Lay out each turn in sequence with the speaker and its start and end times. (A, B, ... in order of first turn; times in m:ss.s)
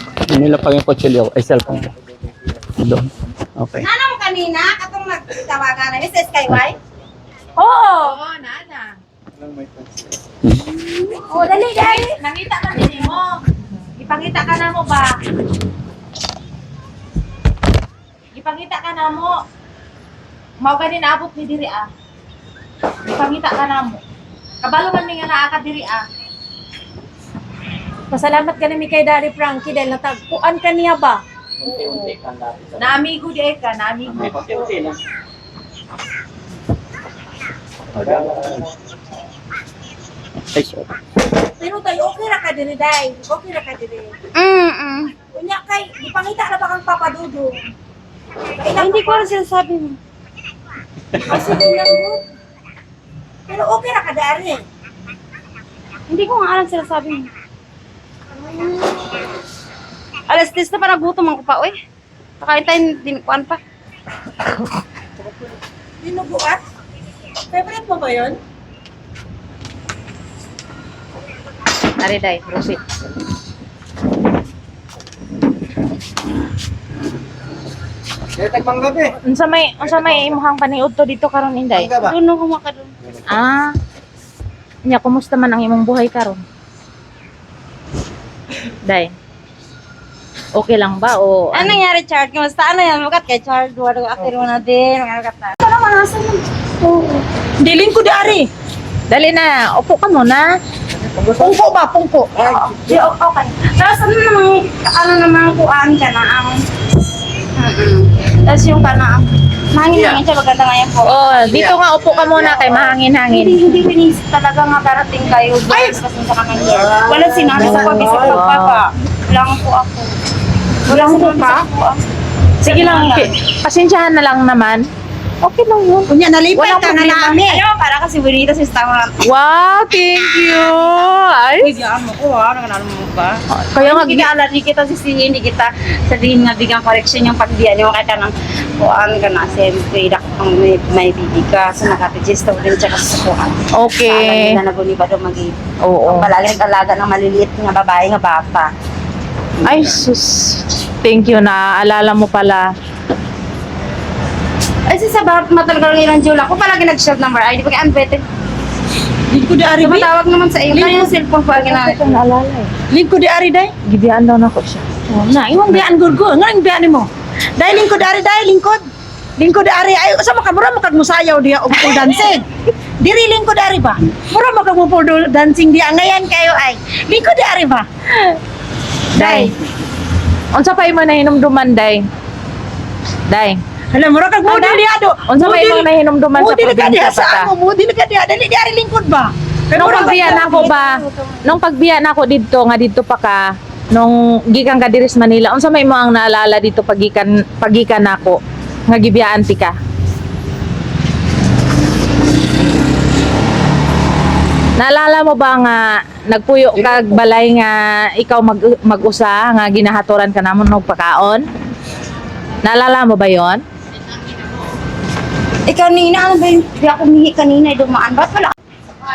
0:00.3-0:01.9 A
0:02.8-0:03.9 A
0:03.8-0:06.8 B
0:07.6-0:08.1 C
0:08.0-0:09.0 D
0:09.4-0:09.9 E
0:10.8-0:12.2 B
0:11.3-0:11.8 C
0:11.7-0:13.4 D
0:14.0-0:15.2 D
0:18.3-0:19.4 D
0:20.6-0:21.9 D
0:23.1-0:24.0 D
0:24.6-0:26.0 D
0:28.1-0:31.2 C
0:31.6-0:33.0 A
0:32.8-0:34.7 D
0:34.0-0:35.0 A
0:37.9-0:38.6 A
0:40.5-0:40.9 A
0:41.6-0:44.1 C
0:44.4-0:45.1 B
0:45.3-0:47.7 C
0:48.6-0:49.3 C
0:48.7-0:50.0 B
0:51.2-0:52.2 C
0:53.5-0:54.6 C
0:56.1-0:57.3 B
0:58.4-0:59.3 B
1:00.3-1:01.8 B
1:02.4-1:03.6 B
1:06.0-1:06.6 C
1:07.5-1:08.4 C
1:12.0-1:12.8 D
1:18.4-1:19.1 E
1:19.3-1:21.9 D
1:20.0-1:20.3 E
1:21.7-1:22.2 E
1:22.0-1:22.9 B
1:23.3-1:23.7 D
1:24.9-1:26.4 D
1:28.8-1:29.1 D
1:30.6-1:31.8 D
1:31.5-1:35.6 B
1:35.6-1:38.5 C
1:39.1-1:40.5 D
1:41.0-1:41.6 E
1:41.4-1:43.1 C
1:42.5-1:46.6 B
1:47.6-1:51.8 B
1:49.9-1:50.2 A
1:51.0-1:53.8 D
1:53.3-2:00.2 B
1:56.7-1:58.4 E
1:57.6-1:58.8 D
2:00.8-2:02.0 B
2:00.9-2:01.7 C
2:02.6-2:04.8 D
2:02.7-2:03.2 B
2:05.7-2:06.1 D
2:06.1-2:07.6 C
2:06.6-2:09.2 B
2:09.2-2:11.7 D
2:11.6-2:28.7 B
2:13.6-2:14.3 D
2:23.8-2:24.6 D
2:25.8-2:26.3 D
2:29.6-2:32.7 D
2:34.9-2:38.2 B
2:39.3-2:40.1 C
2:39.8-2:42.0 B
2:40.7-2:41.2 C
2:41.5-2:42.7 D
2:42.9-2:43.7 C
2:43.8-2:44.8 D
2:45.1-2:48.8 C
2:49.4-2:52.4 C
2:51.8-2:52.3 D
2:53.0-2:57.9 C
2:59.2-2:59.5 D
2:59.2-2:59.6 C
3:00.6-3:02.0 D
3:03.3-3:03.6 D
3:03.9-3:10.7 C
3:04.5-3:07.5 D
3:09.8-3:13.4 D
3:09.8-3:11.6 B
3:14.0-3:19.8 D
3:24.8-3:31.4 D
3:26.8-3:27.2 E
3:32.6-3:33.6 D
3:35.7-3:38.5 B